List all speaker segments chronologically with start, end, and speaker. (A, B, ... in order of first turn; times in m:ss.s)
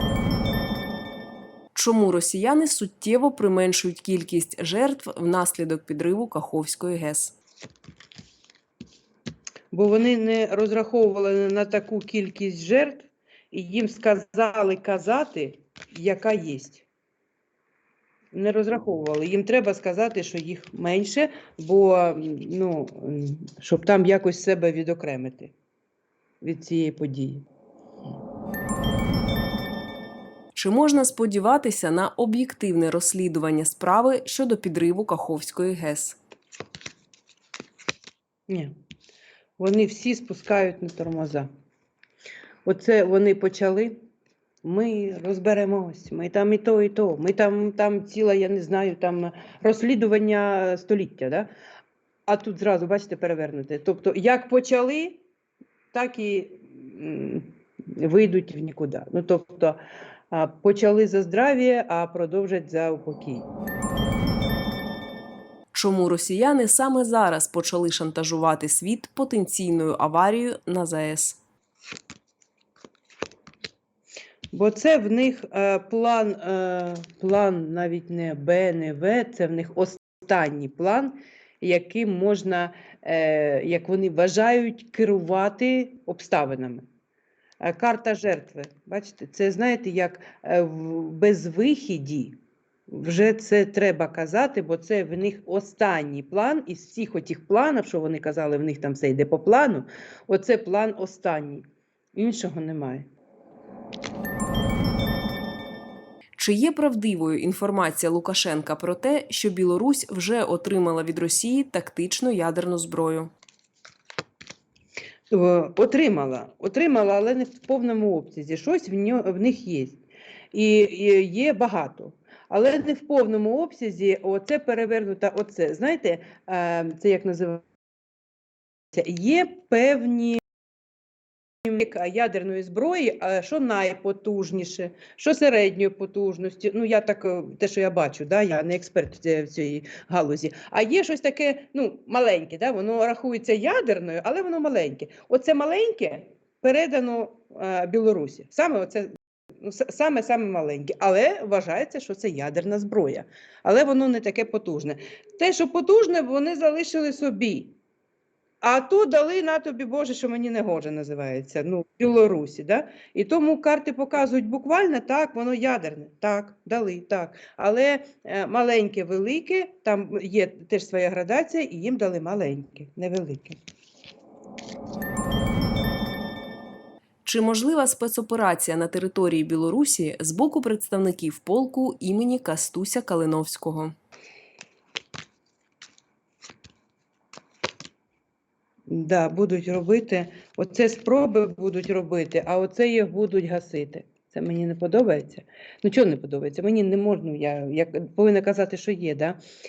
0:01.8-0:07.4 A
0:09.7-0:16.9 B
0:18.3-0:25.5 B
0:26.4-0:27.4 B
0:30.6-0:36.2 A
0:38.5-0:38.7 B
0:39.6-0:41.5 B
0:42.6-0:44.0 B
0:44.6-0:51.5 B
0:52.3-0:55.2 B
0:55.9-0:59.8 B
1:00.3-1:03.5 B
1:05.7-1:11.4 A
1:14.5-1:26.9 B
1:27.6-1:32.4 B
1:32.9-1:43.1 B
1:46.4-1:53.3 A
1:55.3-2:00.0 B
2:00.5-2:07.6 B
2:08.9-2:10.4 B
2:11.6-2:29.1 B
2:29.6-2:37.8 B
2:38.6-2:53.6 B
2:57.2-3:03.9 A
3:08.9-3:19.4 B